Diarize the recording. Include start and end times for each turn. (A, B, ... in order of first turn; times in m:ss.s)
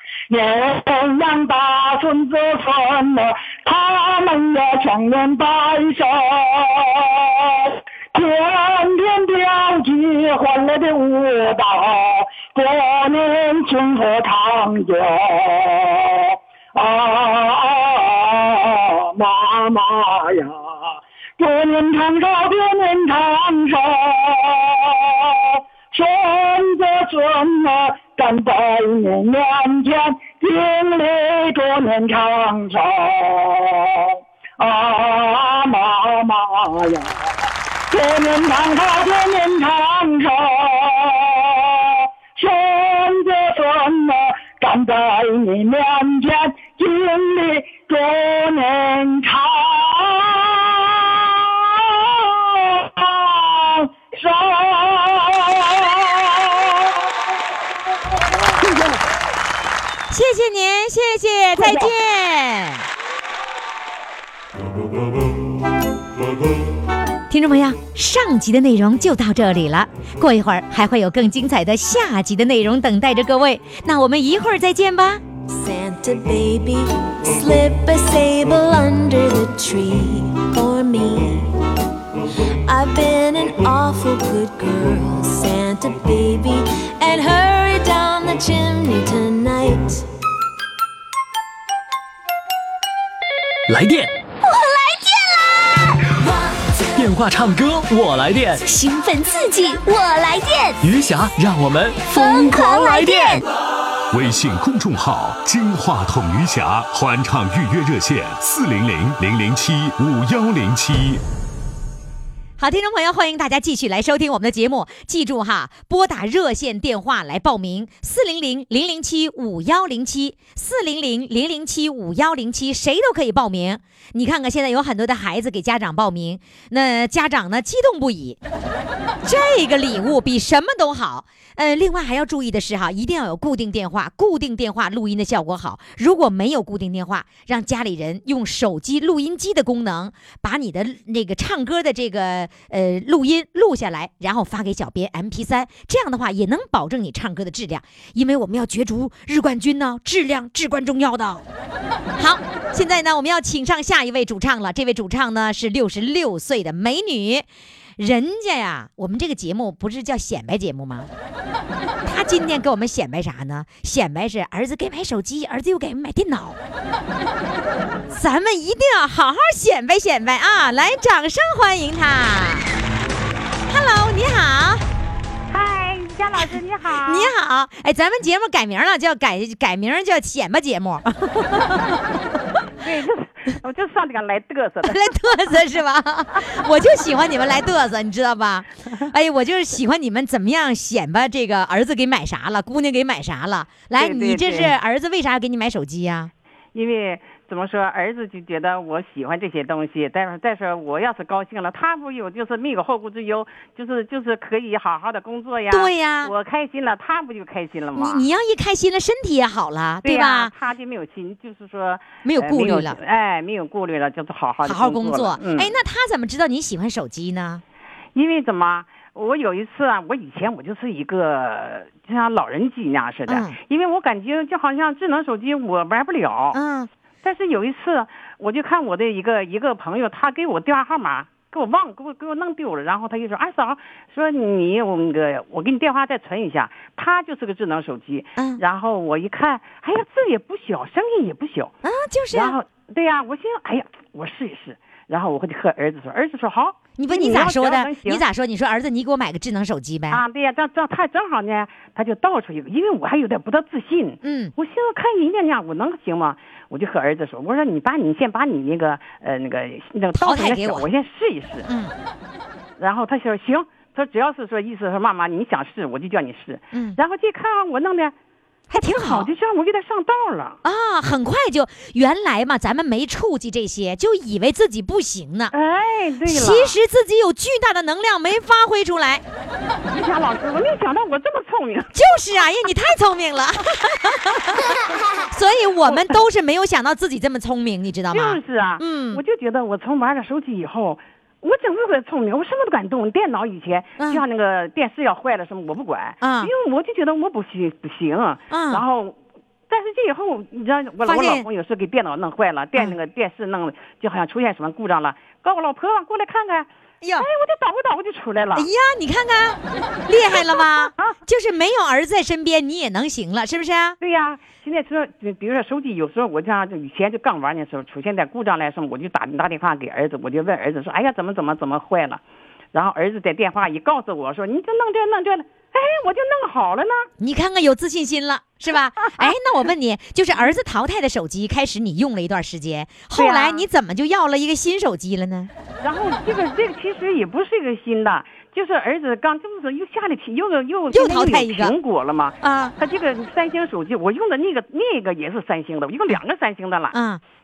0:00.3-0:37.3 A
0:37.9-0:57.3 A
0:57.9-0:59.0 A
1:00.1-1:02.8 B
1:01.5-1:01.9 A
1:07.3-1:15.2 B
1:15.5-1:21.6 C
1:22.6-1:30.0 C
1:33.7-1:34.1 D
1:34.4-1:35.8 E
1:36.9-1:38.6 D
1:38.6-1:40.8 E
1:40.8-1:43.4 D
1:42.1-1:43.4 E
1:44.1-1:51.2 F
1:52.6-2:08.4 B
2:09.2-2:31.4 B
2:32.2-2:37.4 B
2:38.0-2:41.1 B
2:42.0-2:46.6 B
2:48.1-2:52.7 B
2:53.7-2:54.8 B
2:55.5-2:57.3 G
2:57.0-3:02.0 B
3:02.8-3:05.2 G
3:04.8-3:16.3 B
3:14.0-3:14.7 G
3:16.7-3:28.2 G
3:25.7-3:26.3 B
3:27.9-3:30.5 B
3:30.0-3:35.7 G
3:32.2-3:33.0 B
3:34.6-3:37.6 B
3:38.1-3:46.6 G
3:43.3-3:43.6 B
3:46.5-3:46.9 B
3:47.2-4:01.7 G
4:01.8-4:02.6 B
4:02.3-4:08.2 G
4:07.0-4:10.2 B
4:10.1-4:21.7 G
4:14.2-4:14.5 B
4:20.1-4:20.9 B
4:21.7-4:21.9 B
4:22.8-4:28.1 G
4:28.7-4:29.3 B
4:28.7-4:30.6 G
4:30.6-4:35.5 B
4:35.5-4:36.8 G
4:36.2-4:39.2 B
4:39.9-4:41.9 G
4:41.9-4:44.6 B
4:45.3-4:49.2 B
4:48.1-4:59.2 G
4:56.2-4:56.5 B
4:58.5-4:58.8 B
4:59.7-5:08.7 G
5:01.0-5:01.5 B
5:07.0-5:07.3 B
5:08.5-5:14.0 B
5:10.3-5:11.1 G
5:14.0-5:27.1 G
5:27.2-5:35.5 B
5:29.0-5:29.3 G
5:33.1-5:33.6 G
5:35.8-5:47.0 G
5:40.9-5:41.7 B
5:42.4-5:42.7 B
5:46.9-5:47.2 B